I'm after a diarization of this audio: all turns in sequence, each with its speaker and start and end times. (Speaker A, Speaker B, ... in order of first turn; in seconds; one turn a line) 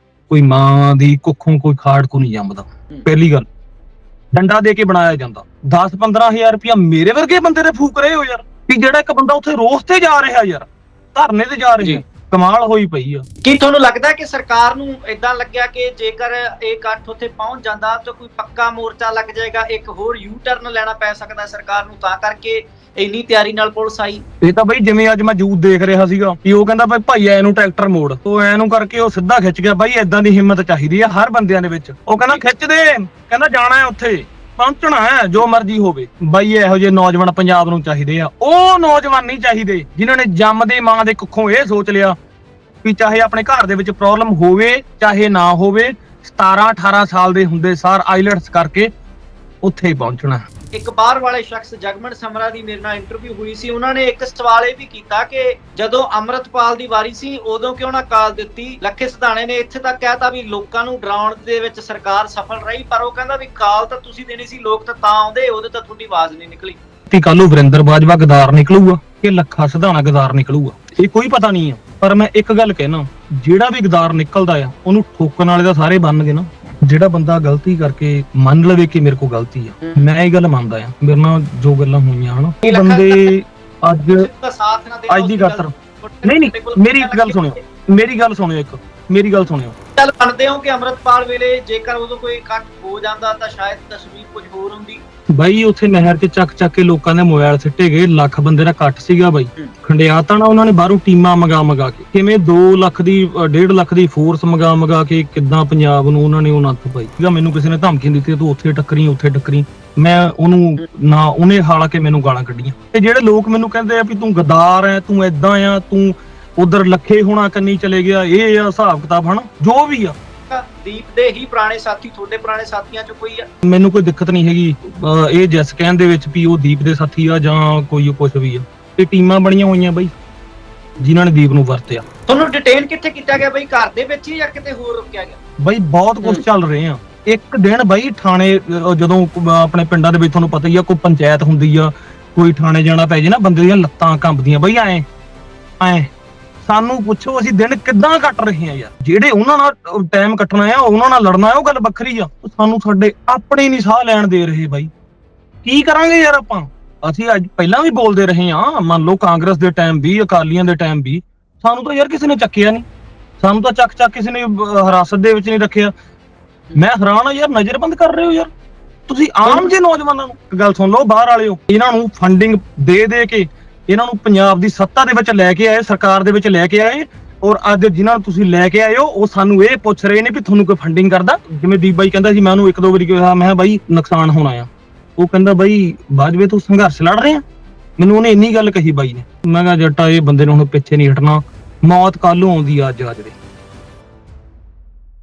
Speaker A: 0.3-3.5
Speaker A: 4.3-13.2
Speaker B: 13.4-24.2
Speaker A: 24.4-42.2
Speaker A: 42.8-48.9
Speaker A: 49.6-50.5
Speaker B: 50.7-66.8
Speaker A: 67.1-84.3
Speaker B: 82.7-83.3
Speaker B: 84.2-87.6
Speaker A: 85.1-85.7
Speaker A: 86.2-89.8
Speaker B: 90.0-95.0
Speaker A: 95.3-120.2
Speaker B: 120.5-123.5
Speaker A: 123.6-130.1
Speaker A: 131.0-132.0
Speaker B: 132.3-135.4
Speaker A: 135.6-145.0
Speaker A: 145.8-146.1
Speaker A: 146.7-154.9
Speaker A: 155.7-162.8
Speaker A: 163.4-165.9
Speaker A: 166.8-168.5
Speaker A: 169.1-187.4
Speaker B: 169.4-169.7
Speaker A: 188.0-193.3